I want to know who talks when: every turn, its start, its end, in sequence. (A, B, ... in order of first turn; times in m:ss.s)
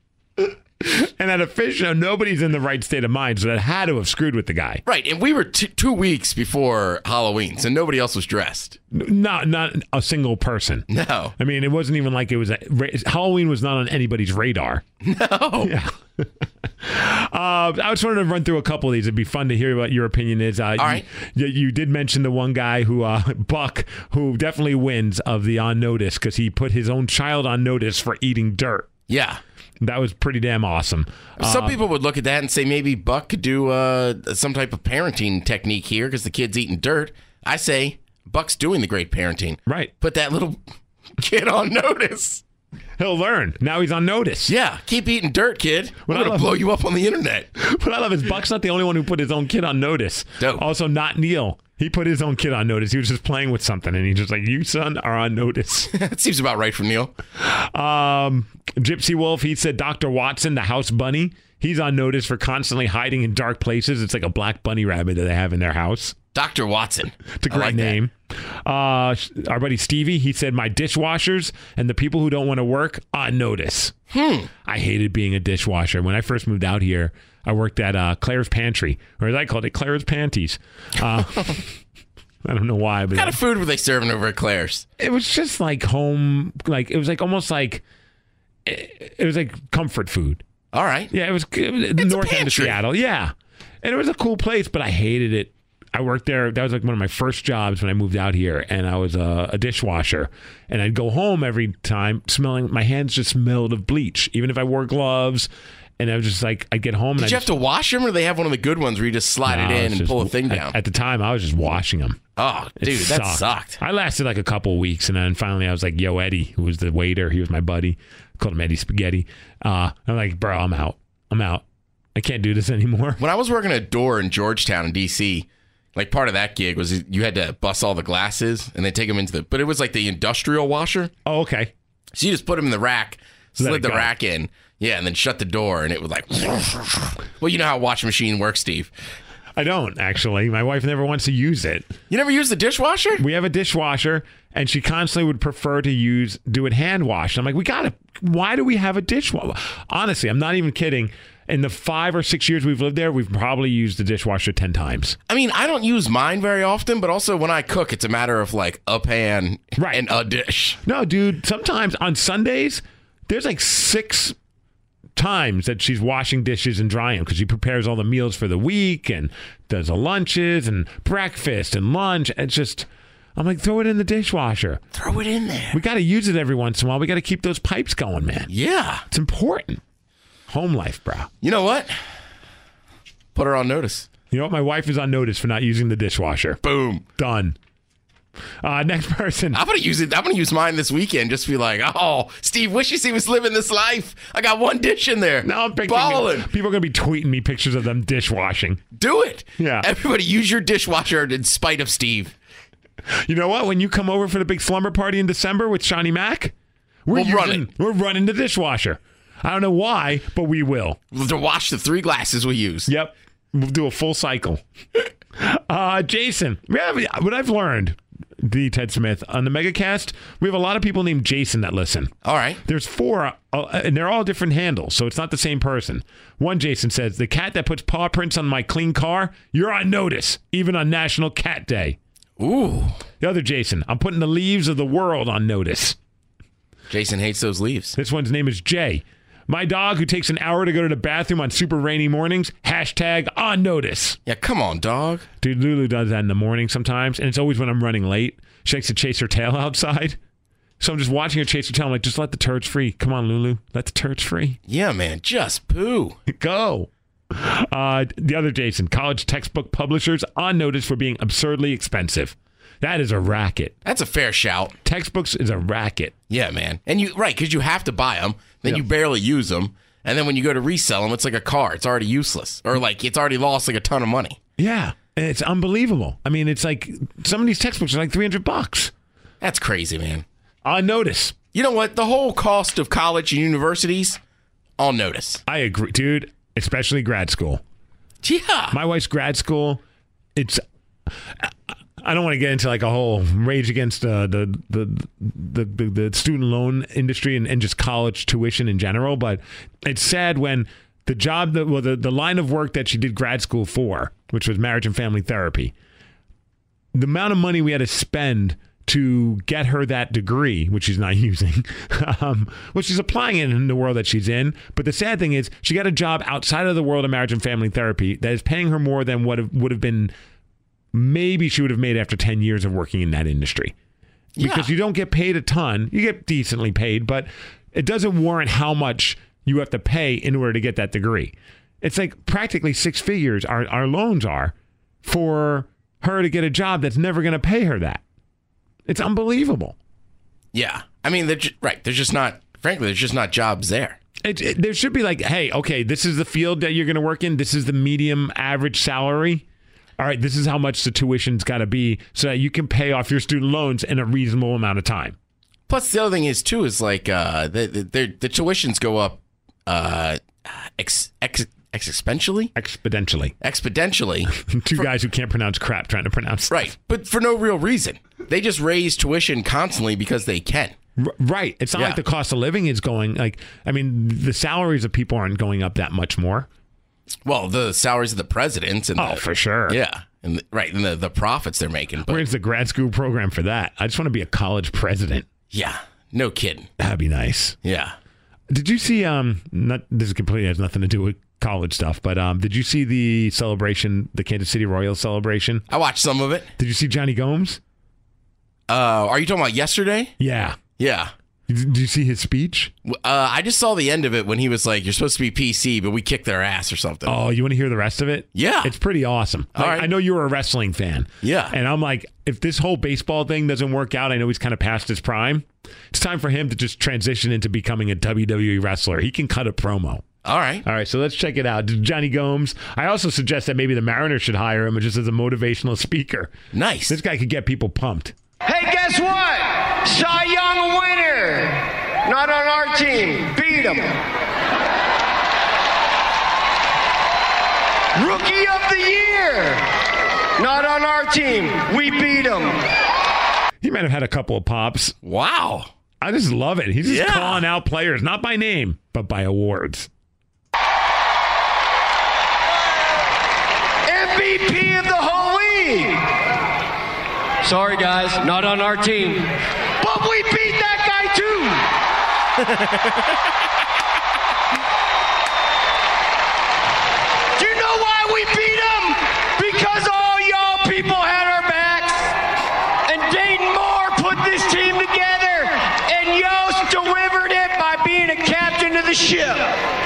0:00.8-0:04.8 A
0:04.8-0:08.8 B
0:08.9-0:14.8 A
0:10.9-0:11.3 B
0:15.0-0:15.7 B
0:15.6-0:16.3 A
0:16.8-0:28.9 A
0:20.8-0:21.0 B
0:29.1-0:29.4 B
0:29.8-0:31.8 A
0:31.4-0:40.6 B
0:41.2-0:42.4 B
0:43.0-0:44.5 A
0:44.5-0:47.5 B
0:46.1-0:46.6 A
0:47.6-0:55.9 A
0:50.4-0:50.6 B
0:55.9-0:57.1 B
0:57.4-1:06.2 A
1:06.3-1:08.0 B
1:07.4-1:08.1 A
1:08.6-1:13.9 A
1:14.1-1:14.5 B
1:14.6-1:21.7 A
1:22.4-1:23.4 A
1:23.1-1:24.8 B
1:25.0-1:27.8 A
1:28.6-1:30.4 A
1:30.7-1:31.1 B
1:31.1-1:45.5 A
1:32.0-1:32.8 B
1:46.0-1:47.5 A
1:47.2-1:50.8 B
1:49.5-1:52.2 A
1:52.4-1:53.8 B
1:52.8-2:01.6 A
2:02.1-2:03.2 A
2:03.2-2:11.1 B
2:11.2-2:11.7 A
2:12.1-2:18.9 B
2:13.6-2:14.1 A
2:19.6-2:21.9 A
2:22.1-2:23.2 B
2:23.2-2:35.2 A
2:35.3-2:40.8 B
2:39.8-2:40.0 A
2:40.8-2:44.3 A
2:45.2-2:54.8 A
2:54.9-2:55.8 B
2:55.7-2:58.5 A
2:58.5-2:59.0 B
2:59.1-2:59.8 A
3:00.5-3:01.3 A
3:01.4-3:02.0 B
3:03.3-3:04.1 B
3:04.3-3:06.6 A
3:06.6-3:07.0 B
3:07.2-3:07.6 A
3:08.6-3:09.6 A
3:09.5-3:16.5 B
3:15.4-3:18.8 A
3:18.9-3:22.3 B
3:19.6-3:19.9 A
3:23.1-3:26.5 A
3:27.0-3:31.0 A
3:27.1-3:27.7 B
3:31.1-3:32.9 B
3:32.9-3:34.6 A
3:35.4-3:42.1 A
3:42.2-3:42.6 B
3:42.6-3:52.0 A
3:52.4-3:53.0 B
3:53.2-3:56.0 A
3:56.9-3:58.0 B
3:58.0-4:04.2 A
4:04.2-4:05.2 B
4:05.4-4:10.2 A
4:10.8-4:14.6 A
4:14.7-4:16.2 B
4:16.3-4:23.8 A
4:23.8-4:24.8 B
4:24.8-4:26.1 A
4:26.3-4:34.4 B
4:34.6-4:38.9 A
4:39.4-4:40.2 B
4:40.6-4:41.4 A
4:41.5-4:44.2 B
4:44.8-4:45.4 B
4:45.5-4:47.6 A
4:48.2-4:48.8 B
4:48.7-4:49.8 A
4:50.4-4:50.6 A
4:51.4-5:05.7 A
5:06.9-5:20.1 A
5:20.9-5:23.7 A
5:24.4-5:24.7 B
5:24.4-5:38.0 A
5:38.9-5:39.8 A
5:40.5-5:44.0 B
5:44.2-5:49.4 A
5:50.0-5:55.2 A
5:55.7-6:02.5 B
6:02.6-6:03.3 A
6:03.4-6:04.9 B
6:04.4-6:06.7 A
6:06.5-6:10.8 B
6:11.0-6:16.5 A
6:11.7-6:12.0 B
6:17.2-6:22.2 B
6:19.0-6:19.8 A
6:22.1-6:25.3 A
6:25.5-6:26.7 B
6:26.8-6:27.6 A
6:27.6-6:27.9 B
6:28.5-6:35.6 A
6:35.7-6:36.5 B
6:36.6-6:37.6 A
6:38.7-6:40.1 B
6:40.2-6:40.6 A
6:40.8-6:41.1 B
6:41.5-6:42.7 A
6:42.8-6:47.2 B
6:47.0-7:00.0 A
6:48.3-6:48.7 B
6:49.5-6:49.9 B
6:51.2-6:51.6 B
7:00.2-7:00.6 B
7:00.6-7:06.3 A
7:06.5-7:07.0 B
7:06.9-7:08.1 A
7:08.4-7:14.0 C
7:17.9-7:19.7 C
7:20.4-7:22.7 C
7:23.6-7:25.0 A
7:25.0-7:25.7 B
7:26.0-7:29.9 A
7:26.8-7:27.4 B
7:33.9-7:36.1 C
7:37.4-7:41.8 C
7:47.4-7:52.2 C
7:52.8-7:59.6 C